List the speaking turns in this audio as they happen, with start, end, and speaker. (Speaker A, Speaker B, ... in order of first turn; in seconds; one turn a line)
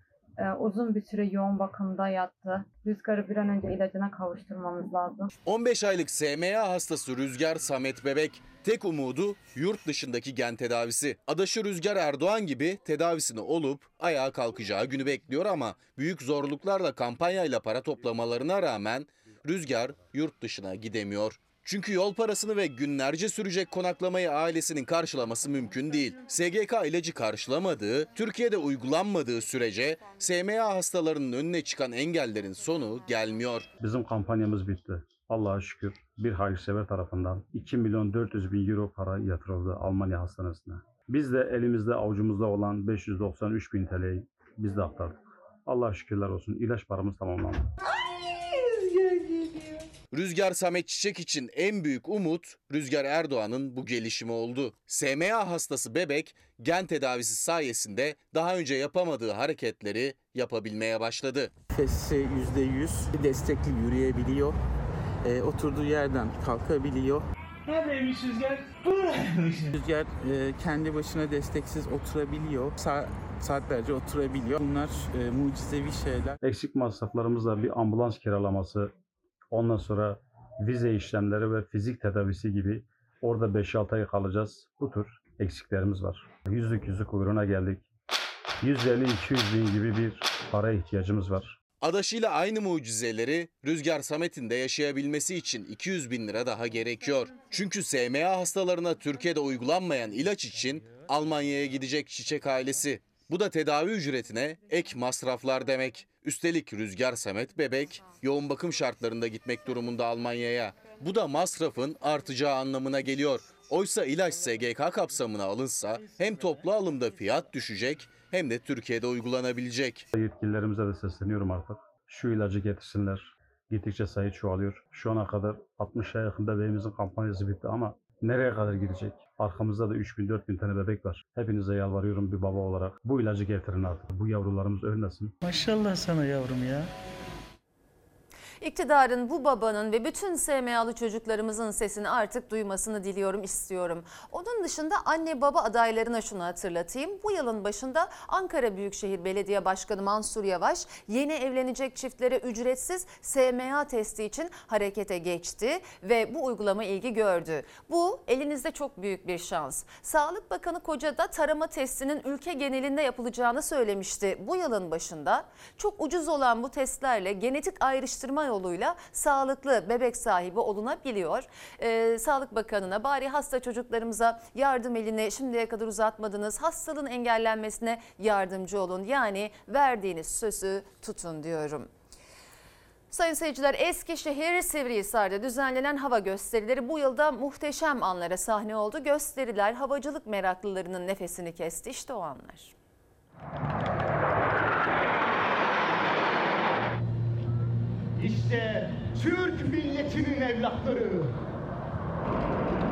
Speaker A: 0.4-5.3
Speaker B: 5.5-33.7
Speaker C: 33.8-47.7
Speaker B: 50.1-61.5
Speaker D: 61.7-64.6
Speaker D: 65.2-67.3
Speaker D: 69.7-76.4
Speaker C: 76.4-78.9
Speaker C: 79.5-87.8
Speaker C: 88.6-91.5
Speaker B: 91.8-120.0
Speaker C: 120.1-135.3
Speaker E: 138.6-181.9
Speaker E: 183.1-192.7